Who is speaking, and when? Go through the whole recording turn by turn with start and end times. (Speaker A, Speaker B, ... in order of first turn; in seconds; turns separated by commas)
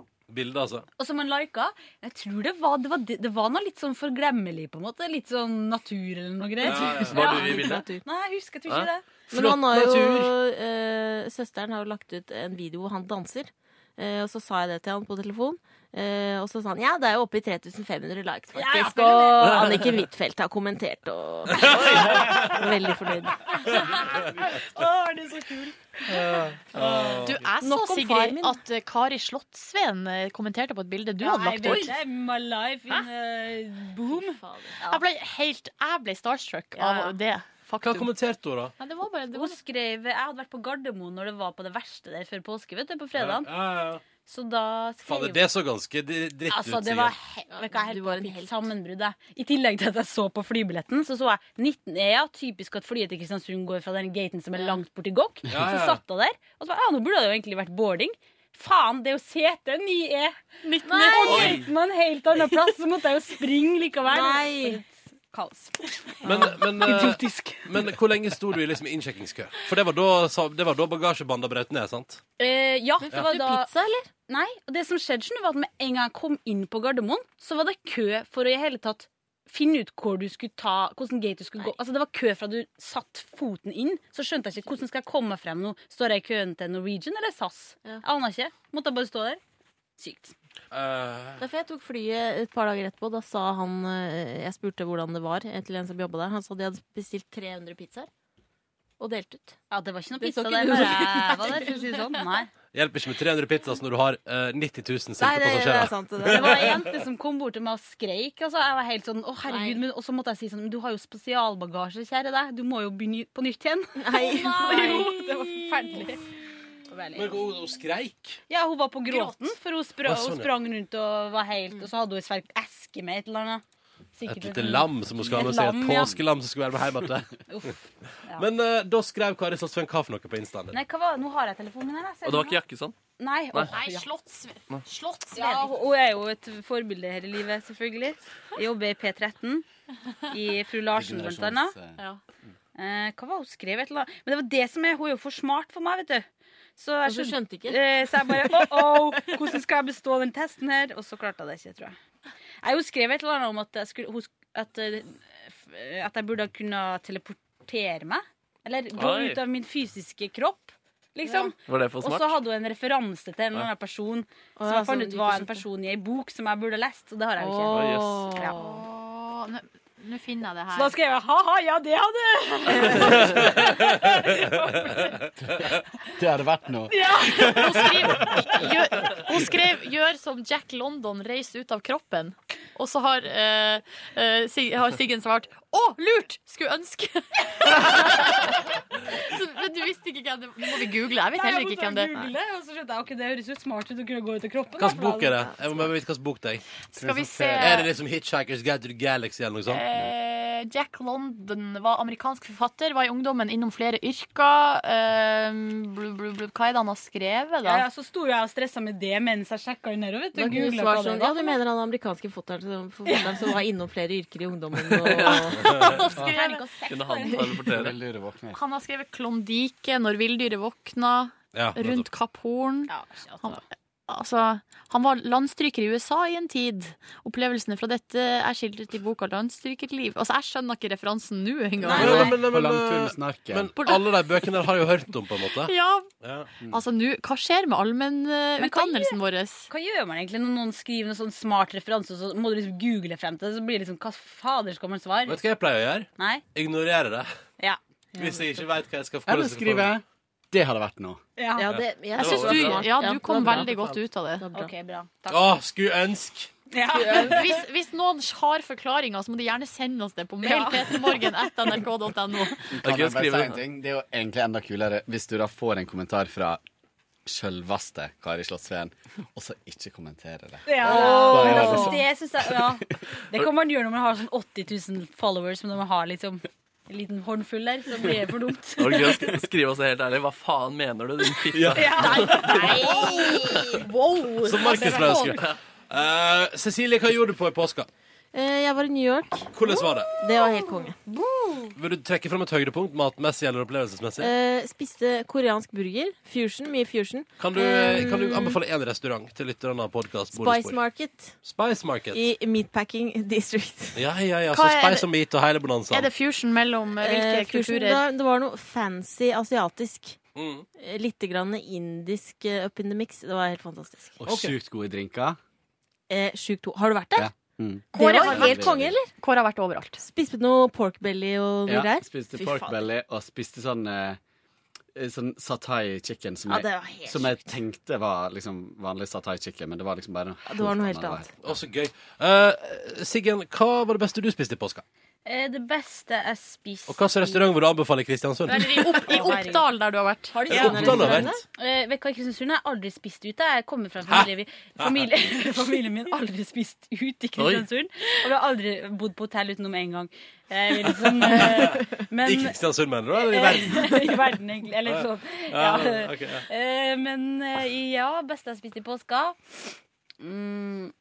Speaker A: 0.3-0.8, Speaker B: 1.0-9.2, Speaker A: 6.6-7.5, Speaker C: 6.8-7.9, Speaker D: 6.9-8.0, Speaker D: 9.3-23.8, Speaker A: 9.6-10.3, Speaker B: 18.5-19.9, Speaker A: 21.6-22.4, Speaker C: 21.7-22.3, Speaker B: 23.6-26.0, Speaker A: 26.1-27.4, Speaker E: 27.2-31.9, Speaker D: 27.6-28.6, Speaker B: 31.2-35.0, Speaker D: 31.6-31.9, Speaker D: 34.1-34.7, Speaker E: 34.8-38.1, Speaker B: 36.7-37.1, Speaker A: 37.8-38.7, Speaker E: 38.8-39.6, Speaker B: 39.3-43.5, Speaker A: 43.1-44.0, Speaker B: 44.2-45.5, Speaker A: 45.0-47.1, Speaker B: 46.5-60.4, Speaker D: 47.5-48.7, Speaker A: 55.5-56.0, Speaker E: 60.6-61.5, Speaker D: 60.9-61.5, Speaker B: 60.9-67.7, Speaker D: 64.0-64.8, Speaker A: 66.2-72.2, Speaker B: 72.4-73.7, Speaker D: 73.0-74.1, Speaker B: 74.3-89.4, Speaker B: 90.0-90.3, Speaker A: 90.7-91.4, Speaker D: 91.4-98.1, Speaker D: 99.0-99.6, Speaker B: 99.7-102.5, Speaker D: 100.2-102.2, Speaker A: 102.7-106.9, Speaker D: 105.2-106.8, Speaker B: 106.2-116.1, Speaker D: 109.4-109.8, Speaker D: 114.0-116.2, Speaker E: 114.2-116.2, Speaker B: 116.9-117.4, Speaker A: 117.1-118.4, Speaker B: 118.5-123.6, Speaker E: 119.1-119.4, Speaker A: 120.0-120.5, Speaker B: 124.2-126.2, Speaker A: 124.2-127.3, Speaker B: 127.5-128.4, Speaker A: 128.3-130.8, Speaker B: 130.7-132.6, Speaker C: 132.2-132.9, Speaker B: 133.2-134.1, Speaker E: 133.7-135.7, Speaker B: 135.3-139.7, Speaker B: 140.3-141.8, Speaker F: 140.9-142.0, Speaker B: 142.7-146.2, Speaker B: 146.8-151.9, Speaker D: 147.1-149.3, Speaker B: 152.6-168.6, Speaker C: 158.9-159.4, Speaker C: 161.6-162.4, Speaker D: 164.6-165.6, Speaker D: 167.4-168.8, Speaker C: 167.7-168.2, Speaker E: 168.6-170.9, Speaker B: 170.7-175.2, Speaker A: 173.0-175.8, Speaker F: 175.6-178.2, Speaker B: 176.9-177.9, Speaker E: 177.3-192.1, Speaker B: 191.3-195.3, Speaker A: 194.8-196.6, Speaker E: 196.9-197.9, Speaker F: 196.9-197.8, Speaker A: 197.6-199.8, Speaker E: 199.7-207.8, Speaker B: 207.6-211.6, Speaker D: 210.3-215.8, Speaker B: 213.1-213.6, Speaker C: 215.0-215.6, Speaker A: 215.6-216.1, Speaker E: 215.6-216.7, Speaker B: 216.2-217.5, Speaker C: 216.9-218.0, Speaker F: 217.7-218.6, Speaker E: 218.5-232.3, Speaker A: 221.5-222.1, Speaker B: 222.9-223.6, Speaker B: 231.9-232.3, Speaker F: 231.9-233.7, Speaker A: 231.9-236.5, Speaker E: 233.8-234.1, Speaker E: 235.6-236.1, Speaker E: 236.7-239.7, Speaker B: 238.6-239.2, Speaker B: 239.7-245.4, Speaker A: 245.2-247.3, Speaker B: 246.2-246.4, Speaker A: 248.2-249.9, Speaker F: 249.2-251.2, Speaker B: 251.3-251.8, Speaker D: 251.6-254.7, Speaker E: 252.2-254.4, Speaker B: 254.5-255.5, Speaker A: 255.3-256.5, Speaker B: 256.7-257.6, Speaker E: 257.0-262.6, Speaker B: 260.4-261.1, Speaker F: 262.7-266.6, Speaker C: 262.8-263.6, Speaker F: 267.2-272.7, Speaker B: 270.6-279.2, Speaker E: 270.9-271.9, Speaker C: 278.8-282.7, Speaker B: 281.8-283.3, Speaker E: 282.3-285.4, Speaker A: 284.4-287.9, Speaker D: 288.3-289.5, Speaker A: 289.5-290.1, Speaker D: 290.2-291.0, Speaker E: 291.1-291.7, Speaker A: 291.8-294.3, Speaker D: 294.2-298.6, Speaker A: 297.4-300.8, Speaker D: 300.3-301.4, Speaker A: 301.4-302.3, Speaker D: 302.1-304.1, Speaker A: 303.9-306.1, Speaker E: 304.5-305.1, Speaker E: 305.9-308.0, Speaker D: 307.0-310.2, Speaker A: 310.4-310.6, Speaker D: 310.8-314.1, Speaker F: 314.2-315.4, Speaker A: 314.2-314.5, Speaker D: 316.1-317.3, Speaker F: 317.1-319.0, Speaker D: 317.9-319.1, Speaker E: 317.9-320.0, Speaker D: 320.0-322.9, Speaker F: 321.7-324.2, Speaker F: 324.9-331.3, Speaker D: 326.5-327.5, Speaker D: 330.5-331.2, Speaker A: 331.4-334.8, Speaker B: 335.2-337.5, Speaker A: 336.9-339.0, Speaker E: 338.5-341.3, Speaker B: 338.8-339.7, Speaker D: 340.3-341.4, Speaker A: 340.5-341.4, Speaker B: 341.6-352.6, Speaker A: 344.1-345.1, Speaker C: 347.4-347.6, Speaker A: 351.2-354.1, Speaker B: 353.1-359.7, Speaker A: 354.9-356.4, Speaker B: 360.2-360.9